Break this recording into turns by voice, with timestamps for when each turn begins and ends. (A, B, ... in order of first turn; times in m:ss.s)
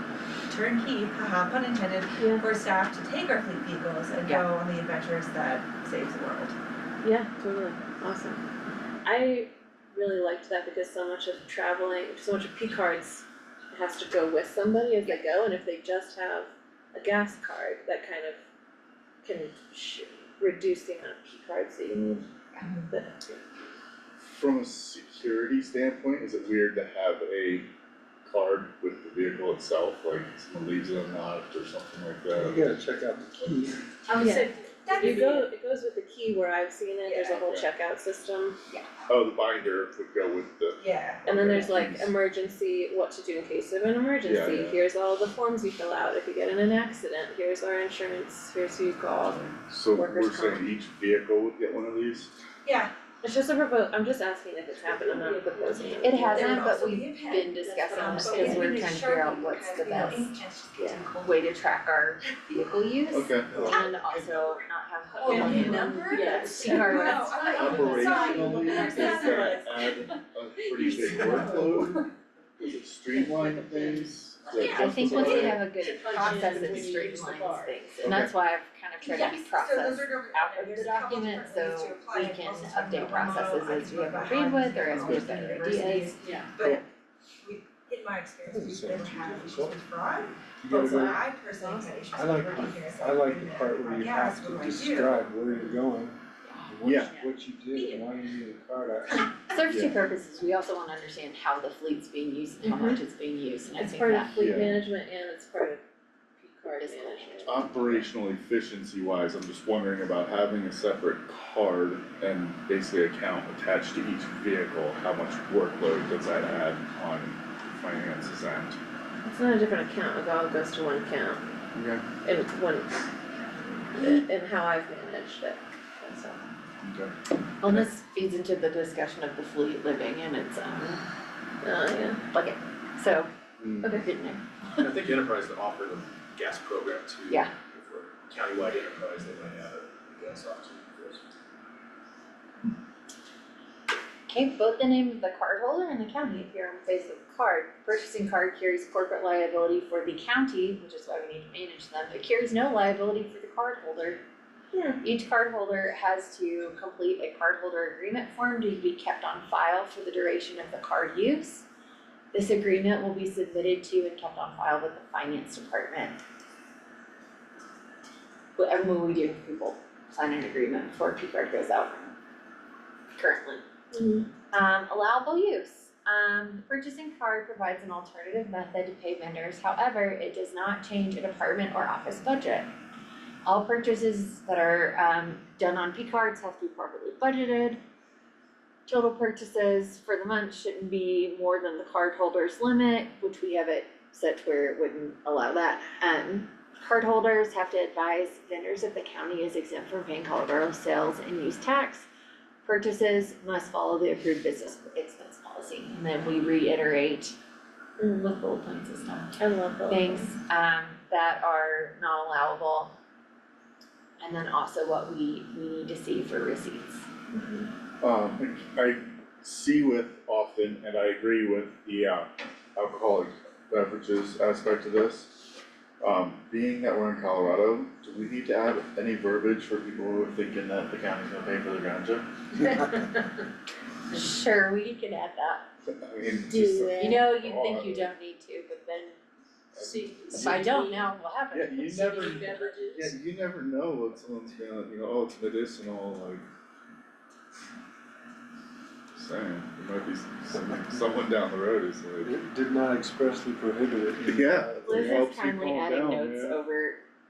0:00.5-0:06.6 A
0:02.2-0:02.4 B
0:07.0-0:08.4 B
0:09.0-0:18.4 B
0:19.2-0:22.3 B
0:22.9-0:23.4 B
0:24.3-0:27.7 C
0:28.2-0:32.7 C
0:32.3-0:33.8 D
0:34.1-0:35.5 A
0:34.2-0:34.4 E
0:34.2-0:38.6 B
0:37.0-0:37.4 A
0:37.4-0:37.7 C
0:39.1-0:42.1 C
0:40.8-0:41.2 A
0:41.3-0:50.6 B
0:44.2-0:44.8 C
0:49.2-0:52.4 C
0:52.6-0:52.9 A
0:53.2-0:56.8 B
0:56.0-1:00.3 E
0:56.3-1:01.5 A
0:57.6-0:58.8 B
1:01.2-1:08.7 E
1:02.4-1:02.7 A
1:03.1-1:03.8 C
1:05.2-1:09.9 A
1:05.2-1:10.1 B
1:07.4-1:12.0 C
1:10.7-1:11.4 B
1:10.7-1:12.0 A
1:12.6-1:15.7 C
1:13.1-1:17.8 B
1:14.5-1:15.5 A
1:14.6-1:26.2 E
1:16.0-1:16.9 A
1:18.0-1:18.3 C
1:19.0-1:26.9 A
1:25.8-1:26.5 B
1:27.4-1:35.2 A
1:28.5-1:29.8 D
1:30.6-1:31.2 D
1:31.0-1:32.0 B
1:32.2-1:39.3 D
1:36.8-1:37.1 C
1:37.7-1:38.0 A
1:39.5-1:44.6 E
1:39.6-1:40.0 C
1:42.6-1:43.0 B
1:43.8-1:45.8 B
1:44.4-1:44.8 C
1:46.4-1:47.9 B
1:46.8-1:48.0 E
1:47.4-1:58.8 C
1:59.2-2:01.5 B
2:01.7-2:02.0 C
2:02.2-2:02.9 B
2:04.0-2:06.4 B
2:06.8-2:07.1 C
2:07.6-2:11.0 E
2:11.6-2:12.2 B
2:12.3-2:13.3 E
2:13.6-2:14.0 C
2:13.8-2:14.1 B
2:13.9-2:14.9 E
2:14.8-2:21.2 F
2:24.3-2:34.2 E
2:34.7-2:35.0 B
2:35.0-2:41.6 E
2:42.3-2:46.2 E
2:48.6-2:52.1 E
2:53.2-2:53.6 E
2:53.9-2:54.3 B
2:54.5-3:02.7 E
3:03.4-3:07.8 E
3:08.9-3:22.1 E
3:22.6-3:27.4 E
3:28.0-3:28.3 B
3:28.1-3:29.4 E
3:29.4-3:30.3 B
3:29.9-3:32.9 E
3:34.2-3:37.1 E
3:37.3-3:37.7 B
3:38.0-3:45.5 C
3:46.0-3:52.3 C
3:52.6-3:53.2 E
3:54.1-3:55.7 E
3:55.9-3:58.1 C
3:56.5-3:57.3 B
3:57.0-3:59.2 E
3:59.8-4:01.1 B
4:00.3-4:02.4 E
4:01.5-4:06.5 C
4:01.9-4:03.1 B
4:09.2-4:12.3 C
4:12.2-4:15.2 D
4:14.2-4:16.6 C
4:14.8-4:17.0 E